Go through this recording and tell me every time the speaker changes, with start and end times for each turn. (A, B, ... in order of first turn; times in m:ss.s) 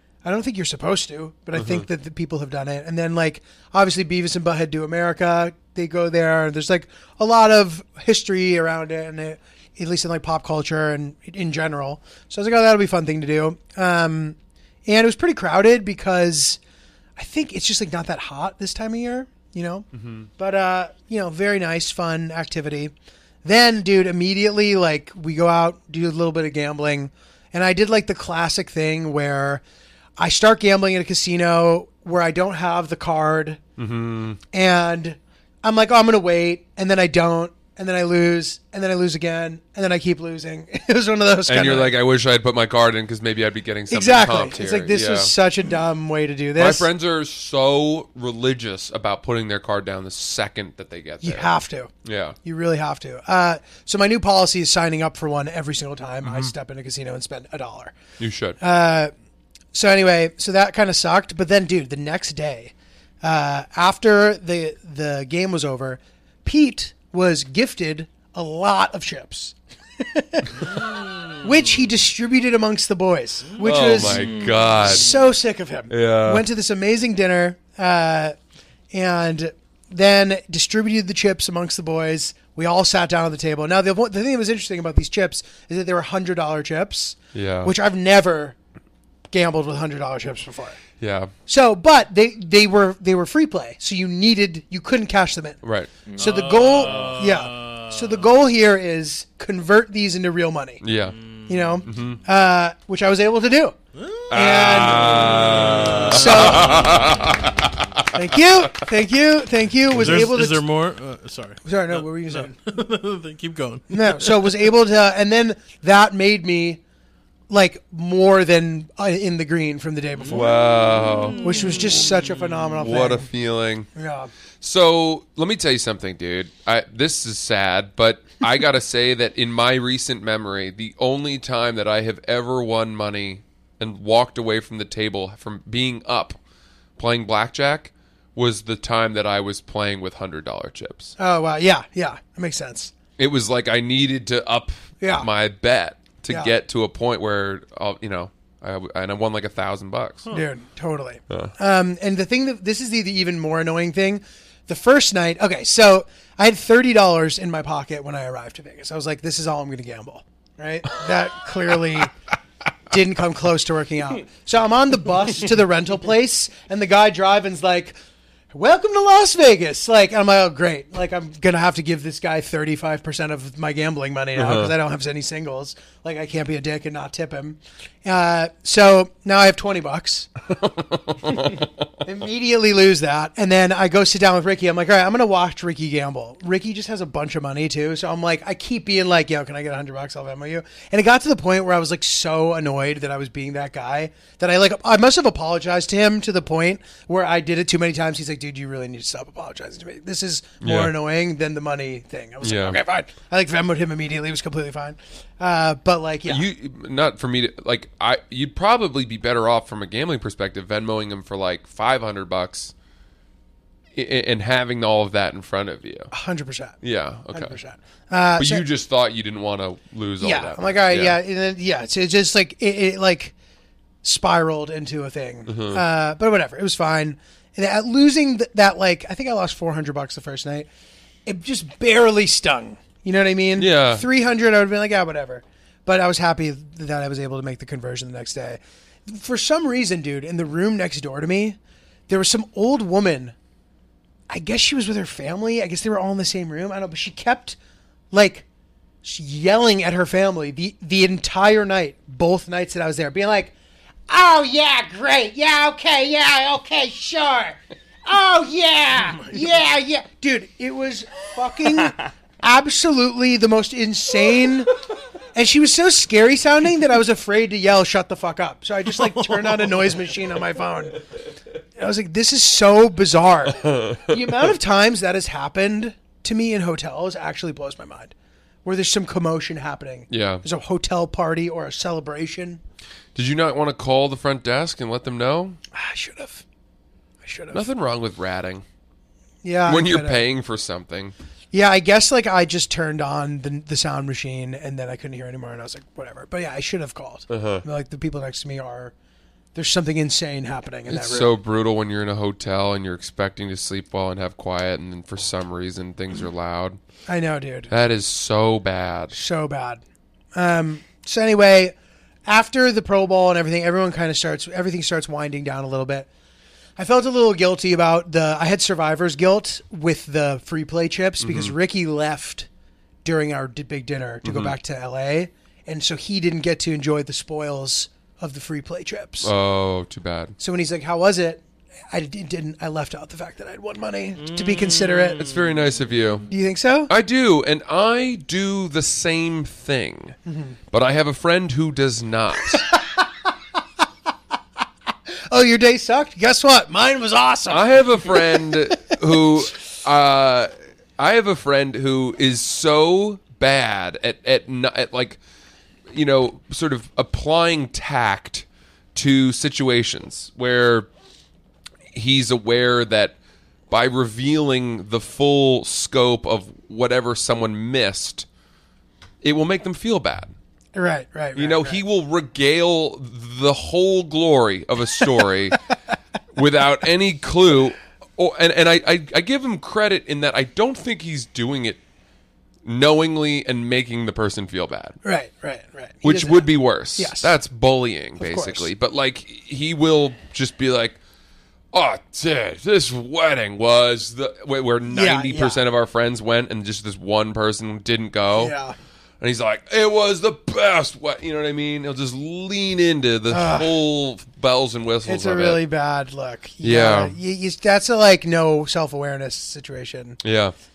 0:00.2-0:16.6 A
0:01.5-0:01.8 B
0:17.2-0:19.9 A
0:19.9-0:20.3 B
0:20.4-0:22.9 A
0:23.4-0:29.6 A
0:30.2-0:33.6 A
0:33.8-0:34.4 B
0:34.5-0:41.9 A
0:41.4-0:45.3 B
0:43.9-0:46.9 A
0:46.6-0:51.5 B
0:51.2-0:51.9 A
0:52.0-0:52.4 B
0:52.4-0:57.9 A
0:56.2-0:56.5 B
0:58.2-0:58.6 B
0:58.6-0:59.1 A
0:59.7-1:18.4 A
1:10.8-1:11.4 C
1:13.6-1:15.1 B
1:13.6-1:15.2 C
1:15.9-1:16.4 B
1:18.9-1:28.6 A
1:27.3-1:27.7 B
1:29.3-1:30.8 A
1:31.0-1:31.3 B
1:31.5-1:35.6 A
1:35.6-1:35.9 B
1:36.1-1:40.8 A
1:36.1-1:38.2 C
1:40.8-1:41.2 B
1:41.0-1:41.8 C
1:41.5-1:43.8 A
1:41.8-1:42.2 B
1:44.0-1:48.0 C
1:44.3-1:47.1 A
1:44.3-1:48.7 B
1:48.1-1:50.7 A
1:49.9-1:54.7 C
1:51.6-1:52.5 A
1:53.9-1:56.8 A
1:57.5-2:00.6 A
2:00.2-2:02.8 C
2:00.3-2:02.0 B
2:01.3-2:03.3 A
2:02.8-2:03.9 B
2:03.9-2:04.3 A
2:04.6-2:16.4 B
2:17.0-2:21.1 B
2:21.2-2:22.9 A
2:23.2-2:30.3 B
2:25.0-2:25.3 A
2:30.3-2:42.1 A
2:42.9-2:48.0 A
2:48.5-3:00.3 A
2:54.4-2:54.7 B
3:00.5-3:01.8 B
3:02.0-3:26.4 A
3:20.6-3:20.9 B
3:22.4-3:22.8 B
3:26.2-3:32.7 B
3:33.9-3:36.1 B
3:36.1-3:36.8 A
3:36.8-3:37.6 B
3:37.3-3:38.6 A
3:38.4-3:41.2 B
3:40.2-3:43.3 A
3:44.0-3:50.7 A
3:45.5-3:45.8 B
3:51.2-4:01.6 A
3:53.6-3:54.0 B
4:02.1-4:03.3 A
4:04.3-4:07.6 A
4:08.1-4:08.4 A
4:09.0-4:13.5 A
4:14.1-4:24.7 A
4:25.3-4:31.0 A
4:31.8-4:38.1 A
4:33.6-4:34.2 B
4:38.6-4:42.6 A
4:40.1-4:40.4 B
4:43.1-4:45.6 B
4:45.7-4:46.4 A
4:47.2-4:47.6 A
4:47.5-4:48.6 B
4:49.4-4:50.2 A
4:49.6-4:51.1 B
4:51.5-4:58.9 A
4:57.3-4:57.6 B
4:59.5-5:01.3 A
5:00.9-5:06.8 B
5:07.1-5:07.7 A
5:07.7-5:09.1 B
5:09.1-5:09.8 A
5:10.3-5:11.7 A
5:12.2-5:16.1 A
5:16.8-5:22.5 A
5:21.2-5:21.5 B
5:23.0-5:29.3 A
5:24.2-5:24.5 B
5:29.2-5:30.3 B
5:30.4-5:35.3 A
5:34.3-5:35.6 C
5:35.1-5:36.3 B
5:36.3-5:36.9 A
5:36.9-5:40.2 B
5:40.2-5:40.6 A
5:40.7-5:42.6 B
5:42.7-5:43.0 A
5:45.3-5:49.0 A
5:47.5-5:55.2 B
5:55.9-6:00.9 B
6:01.9-6:03.2 B
6:03.7-6:08.3 B
6:09.2-6:10.3 B
6:10.7-6:11.8 A
6:11.3-6:15.6 B
6:16.3-6:21.8 B
6:22.6-6:25.0 B
6:25.0-6:27.3 A
6:26.0-6:31.0 B
6:28.2-6:28.7 A
6:31.7-6:38.5 B
6:34.9-6:35.6 A
6:38.3-6:38.8 A
6:39.2-6:45.6 B
6:43.3-6:43.8 A
6:45.0-6:50.2 A
6:46.6-6:47.2 B
6:50.2-6:50.5 B